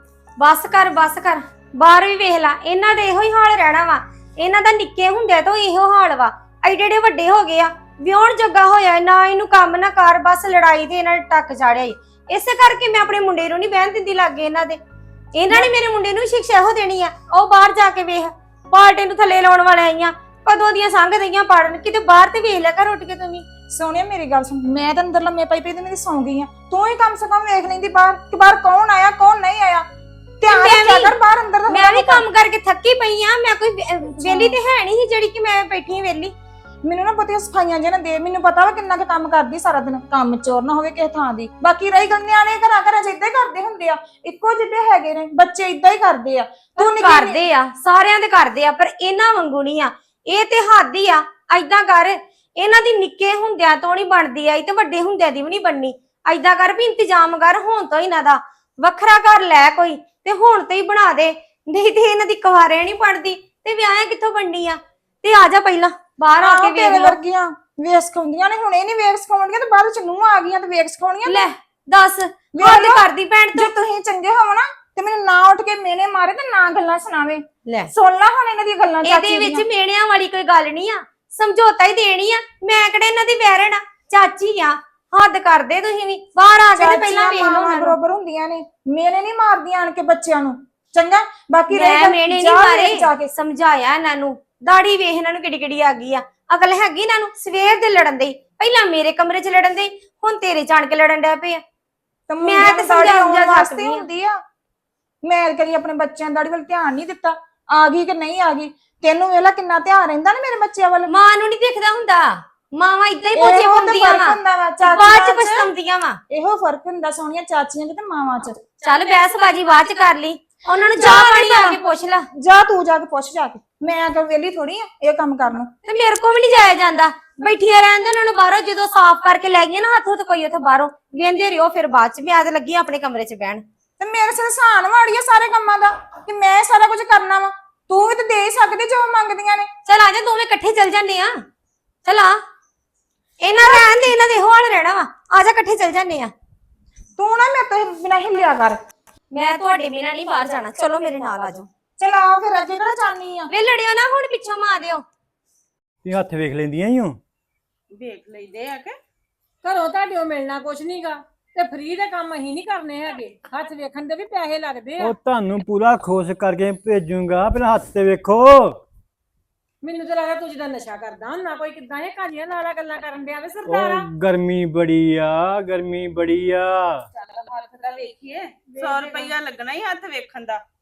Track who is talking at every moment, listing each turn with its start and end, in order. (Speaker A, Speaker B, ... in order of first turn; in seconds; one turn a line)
Speaker A: 0.4-14.8
Speaker A: 15.3-23.4
Speaker B: 23.7-29.9
Speaker B: 30.4-32.2
Speaker A: 30.5-31.1
Speaker A: 31.7-36.3
Speaker B: 34.1-34.6
Speaker B: 36.8-47.4
Speaker A: 46.8-67.2
Speaker B: 66.4-71.4
Speaker A: 71.2-73.7
Speaker B: 72.5-79.7
Speaker A: 79.0-88.0
Speaker B: 86.7-93.3
Speaker A: 91.7-101.6
Speaker B: 102.3-104.4
Speaker A: 102.4-104.0
Speaker B: 105.2-111.1
Speaker A: 111.1-116.2
Speaker B: 113.3-115.8
Speaker B: 116.3-118.6
Speaker A: 118.8-122.2
Speaker B: 120.7-121.8
Speaker B: 122.4-125.7
Speaker A: 125.8-133.6
Speaker B: 134.0-139.7
Speaker A: 139.8-141.3
Speaker A: 142.0-142.3
Speaker A: 143.4-146.3
Speaker B: 143.5-144.2
Speaker B: 147.2-148.8
Speaker A: 149.3-151.7
Speaker B: 152.0-153.5
Speaker A: 153.5-155.0
Speaker C: 156.0-157.2
Speaker D: 157.9-158.9
Speaker E: 159.6-165.1
Speaker C: 165.0-168.8
Speaker E: 169.8-174.1
Speaker C: 173.7-177.0
Speaker D: 177.2-180.6
Speaker E: 178.8-179.2